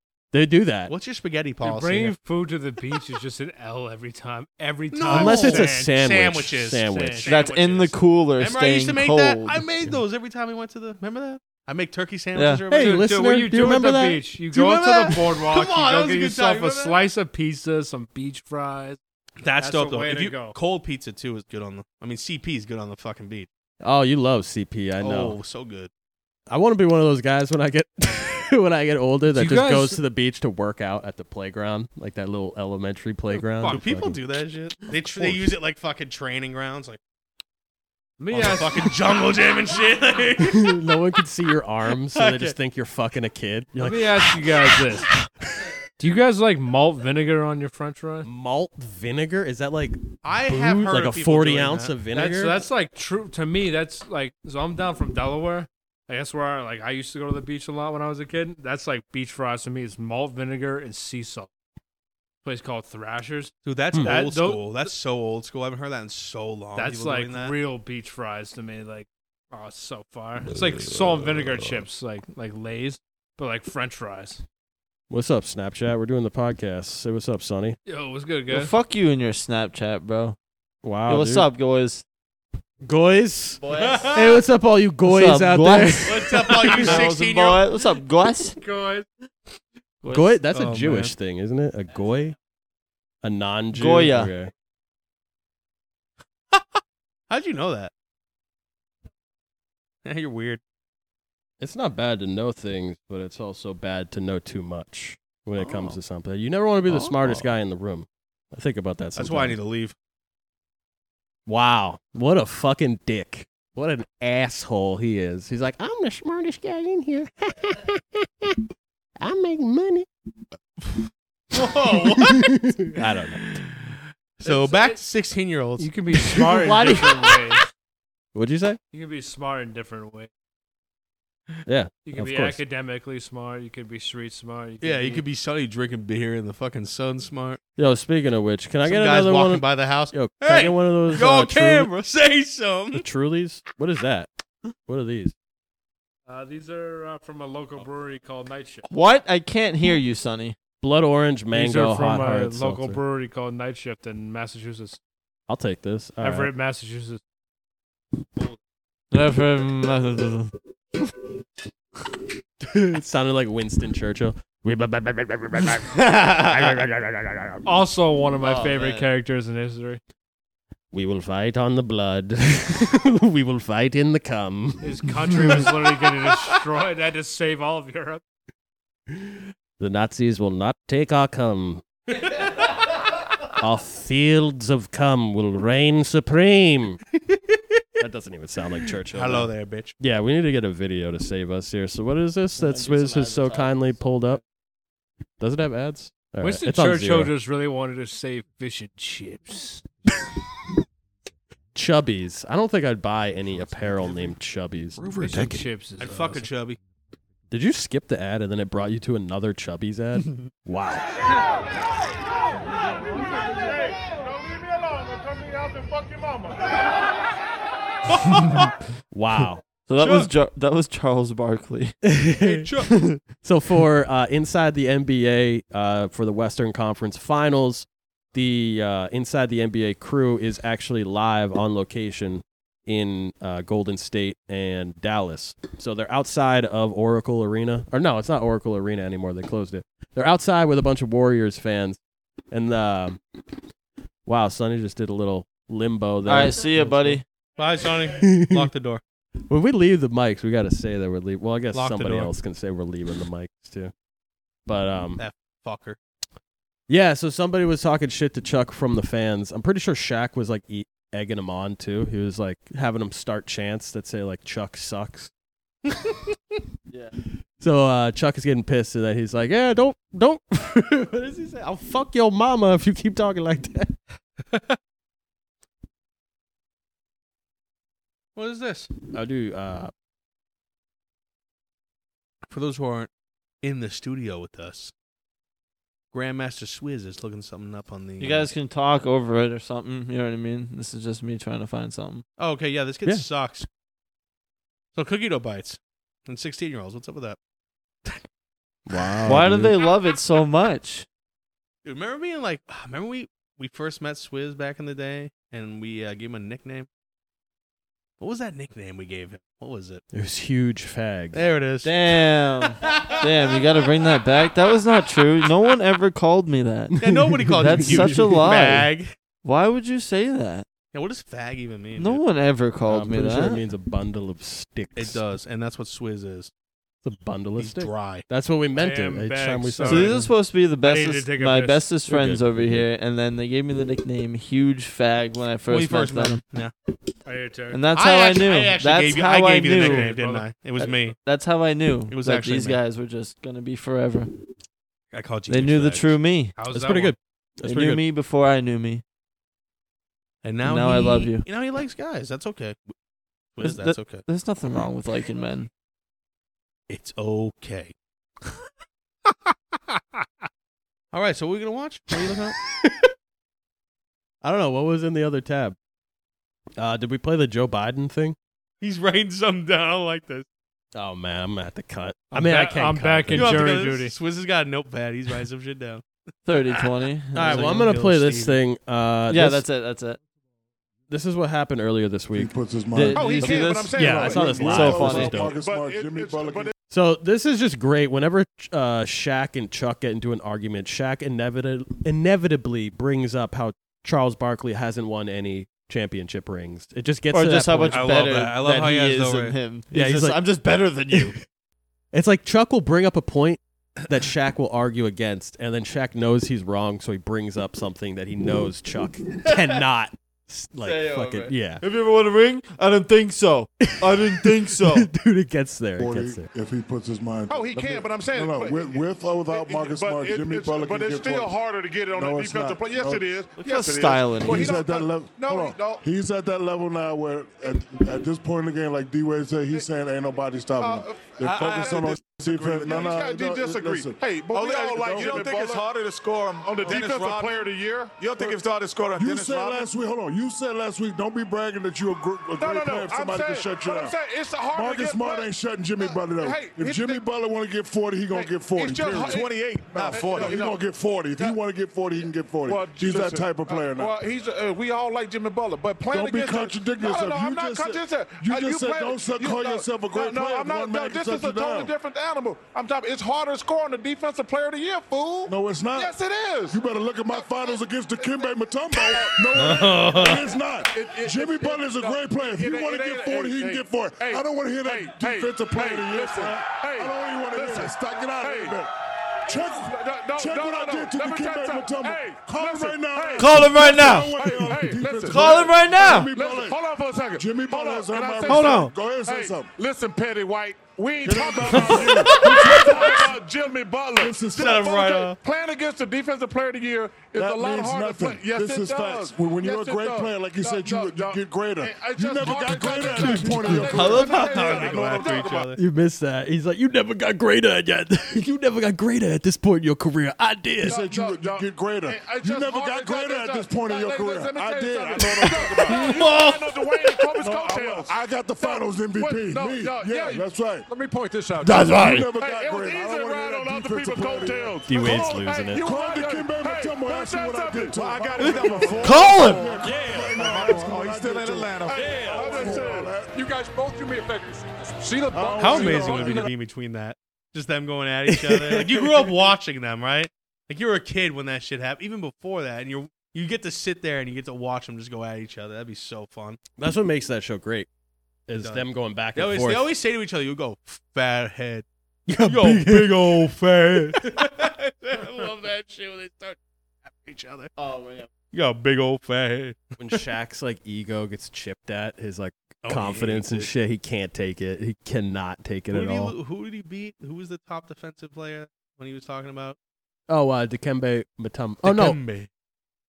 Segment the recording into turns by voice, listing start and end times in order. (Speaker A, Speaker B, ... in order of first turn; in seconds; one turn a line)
Speaker A: 0.3-0.9
Speaker B: 0.9-2.1
Speaker C: 1.6-6.0
Speaker B: 4.9-13.1
Speaker A: 5.1-7.3
Speaker C: 6.8-7.8
Speaker D: 7.2-9.6
Speaker D: 12.3-12.6
Speaker A: 12.7-14.2
Speaker C: 12.8-19.0
Speaker B: 14.5-17.0
Speaker B: 19.4-23.5
Speaker C: 19.6-20.6
Speaker A: 23.8-25.4
Speaker B: 25.0-25.9
Speaker A: 26.5-34.2
Speaker C: 29.3-30.0
Speaker B: 33.6-37.0
Speaker A: 35.1-35.5
Speaker C: 38.2-38.9
Speaker B: 38.3-40.8
Speaker A: 40.4-44.3
Speaker B: 42.1-42.5
Speaker C: 43.8-45.1
Speaker C: 46.0-48.3
Speaker A: 48.2-52.5
Speaker B: 50.2-52.0
Speaker C: 52.1-61.5
Speaker C: 62.4-64.8
Speaker B: 63.6-67.5
Speaker C: 66.7-74.4
Speaker A: 75.1-77.8
Speaker C: 77.8-78.7
Speaker D: 78.5-80.4
Speaker A: 80.8-81.5
Speaker D: 81.1-82.0
Speaker A: 82.8-83.6
Speaker D: 83.6-84.1
Speaker B: 83.8-84.2
Speaker A: 84.1-87.0
Speaker D: 85.0-88.6
Speaker B: 86.0-87.6
Speaker C: 88.5-89.1
Speaker D: 90.0-90.3
Speaker A: 90.1-92.3
Speaker B: 90.5-91.1
Speaker A: 93.2-94.5
Speaker D: 93.7-94.3
Speaker B: 96.5-97.9
Speaker B: 100.0-100.6
Speaker A: 101.6-109.6
Speaker B: 105.6-105.9
Speaker B: 106.9-107.4
Speaker B: 109.2-109.9
Speaker A: 111.5-118.5
Speaker A: 119.2-120.1
Speaker B: 121.5-122.5
Speaker A: 122.2-123.4
Speaker B: 123.4-125.9
Speaker C: 124.4-125.0
Speaker C: 125.8-127.6
Speaker A: 126.2-127.3
Speaker A: 128.3-128.8
Speaker C: 128.9-130.3
Speaker A: 131.7-132.6
Speaker C: 132.0-135.2
Speaker B: 134.8-137.6
Speaker A: 137.8-141.9
Speaker B: 138.8-143.0
Speaker A: 142.9-144.3
Speaker A: 144.8-145.3
Speaker C: 146.3-148.9
Speaker D: 148.9-150.6
Speaker A: 150.8-153.0
Speaker C: 151.5-155.0
Speaker A: 155.5-156.5
Speaker C: 156.2-157.2
Speaker D: 159.1-160.5
Speaker A: 162.6-167.7
Speaker C: 167.6-170.0
Speaker D: 168.4-169.1
Speaker A: 170.9-175.7
Speaker C: 174.8-178.2
Speaker A: 179.1-181.8
Speaker A: 183.6-187.0
Speaker B: 187.3-187.6
Speaker A: 188.0-194.4
Speaker B: 189.1-189.9
Speaker D: 192.6-194.0
Speaker A: 195.4-197.3
Speaker C: 196.4-199.8
Speaker A: 201.7-205.6
Speaker C: 205.1-206.5
Speaker B: 206.0-206.8
Speaker A: 207.5-211.0
Speaker E: 215.8-216.4
Speaker B: 218.1-218.7
Speaker A: 219.1-219.6
Speaker D: 219.9-222.0
Speaker B: 220.0-220.3
Speaker A: 222.0-222.7
Speaker B: 222.4-223.2
Speaker A: 223.4-242.0
Speaker A: 242.5-243.2
Speaker A: 244.2-247.2
Speaker D: 246.2-247.2
Speaker B: 247.6-249.0
Speaker A: 248.1-248.7
Speaker A: 249.5-253.9
Speaker B: 251.7-252.3
Speaker A: 254.7-255.2
Speaker B: 255.2-256.0
Speaker A: 256.9-265.3
Speaker D: 266.9-267.1
Speaker A: 267.6-274.0
Speaker B: 274.5-274.8
Speaker B: 278.3-278.9
Speaker A: 279.1-279.9
Speaker B: 282.5-283.1
Speaker B: 283.6-284.9
Speaker B: 286.1-288.5
Speaker D: 288.2-292.2
Speaker B: 292.4-293.7
Speaker B: 294.9-297.4
Speaker A: 298.9-299.8
Speaker D: 299.2-301.1
Speaker B: 301.8-306.9
Speaker B: 308.2-310.0
Speaker A: 310.1-311.4
Speaker B: 311.3-311.9
Speaker D: 311.8-316.9
Speaker B: 312.9-313.2
Speaker A: 316.9-318.3
Speaker B: 317.0-319.1
Speaker D: 317.6-318.9
Speaker D: 319.4-320.6
Speaker B: 320.9-322.2
Speaker D: 321.9-323.6
Speaker A: 322.9-325.2
Speaker B: 324.9-326.5
Speaker A: 327.0-330.3
Speaker B: 327.6-328.2
Speaker C: 328.8-330.3
Speaker D: 329.8-336.4
Speaker C: 330.8-331.8
Speaker A: 332.1-332.9
Speaker B: 335.7-336.7
Speaker C: 337.2-337.8
Speaker D: 337.7-340.1
Speaker B: 337.9-341.2
Speaker C: 339.8-340.5
Speaker D: 340.8-344.3
Speaker B: 342.1-342.8
Speaker B: 345.1-346.2
Speaker D: 345.5-346.5
Speaker C: 346.6-347.1
Speaker A: 346.7-348.0
Speaker D: 347.6-349.0
Speaker B: 350.4-352.9
Speaker D: 350.6-351.4
Speaker B: 353.6-354.2
Speaker D: 353.6-355.7
Speaker B: 356.9-357.9
Speaker B: 361.1-362.6
Speaker A: 362.8-363.1
Speaker A: 364.4-365.8
Speaker A: 366.8-368.4
Speaker B: 368.8-370.5
Speaker A: 370.9-373.7
Speaker C: 372.3-374.1
Speaker B: 373.3-378.6
Speaker D: 376.5-377.8
Speaker A: 377.3-379.6
Speaker D: 379.3-380.2
Speaker A: 381.1-382.5
Speaker F: 382.3-386.7
Speaker D: 382.9-385.5
Speaker E: 383.1-386.7
Speaker A: 383.9-385.5
Speaker A: 386.9-398.1
Speaker D: 397.3-401.4
Speaker B: 397.9-399.5
Speaker A: 399.9-400.4
Speaker A: 402.1-411.8
Speaker D: 410.8-415.1
Speaker A: 413.8-416.5
Speaker F: 416.0-421.6
Speaker E: 417.5-426.0
Speaker F: 422.1-423.3
Speaker D: 423.6-424.7
Speaker F: 424.4-434.2
Speaker E: 430.8-435.9
Speaker G: 431.4-433.1
Speaker G: 434.5-437.6
Speaker F: 434.9-435.5
Speaker E: 436.6-438.2
Speaker G: 438.1-439.8
Speaker F: 439.1-444.1
Speaker E: 442.6-447.2
Speaker F: 444.7-454.1
Speaker E: 448.3-451.6
Speaker G: 449.3-450.6
Speaker E: 452.7-478.8
Speaker F: 456.1-461.9
Speaker F: 465.5-466.1
Speaker F: 466.7-478.9
Speaker B: 469.6-470.4
Speaker F: 479.5-486.8
Speaker E: 479.5-505.7
Speaker D: 483.4-484.5
Speaker D: 485.2-486.3
Speaker F: 487.3-489.7
Speaker B: 488.5-488.9
Speaker D: 488.6-488.8
Speaker F: 491.2-493.4
Speaker D: 492.2-492.7
Speaker F: 494.2-494.9
Speaker D: 494.6-495.2
Speaker B: 494.7-495.4
Speaker F: 497.3-505.6
Speaker B: 503.9-505.8
Speaker D: 503.9-504.9
Speaker A: 505.8-511.0
Speaker E: 510.9-531.0
Speaker F: 510.9-520.9
Speaker D: 521.6-522.3
Speaker F: 521.9-533.4
Speaker A: 524.9-525.8
Speaker D: 529.0-529.7
Speaker G: 529.8-532.8
Speaker E: 531.8-536.5
Speaker F: 535.3-536.5
Speaker B: 535.6-546.6
Speaker A: 538.3-539.2
Speaker A: 546.8-547.9
Speaker A: 548.5-549.9
Speaker B: 548.6-551.8
Speaker A: 552.3-553.5
Speaker B: 552.4-557.7
Speaker D: 557.8-558.3
Speaker B: 558.5-559.9
Speaker A: 560.0-566.3
Speaker B: 562.8-563.7
Speaker B: 565.9-569.8
Speaker A: 570.3-572.2
Speaker B: 571.8-572.5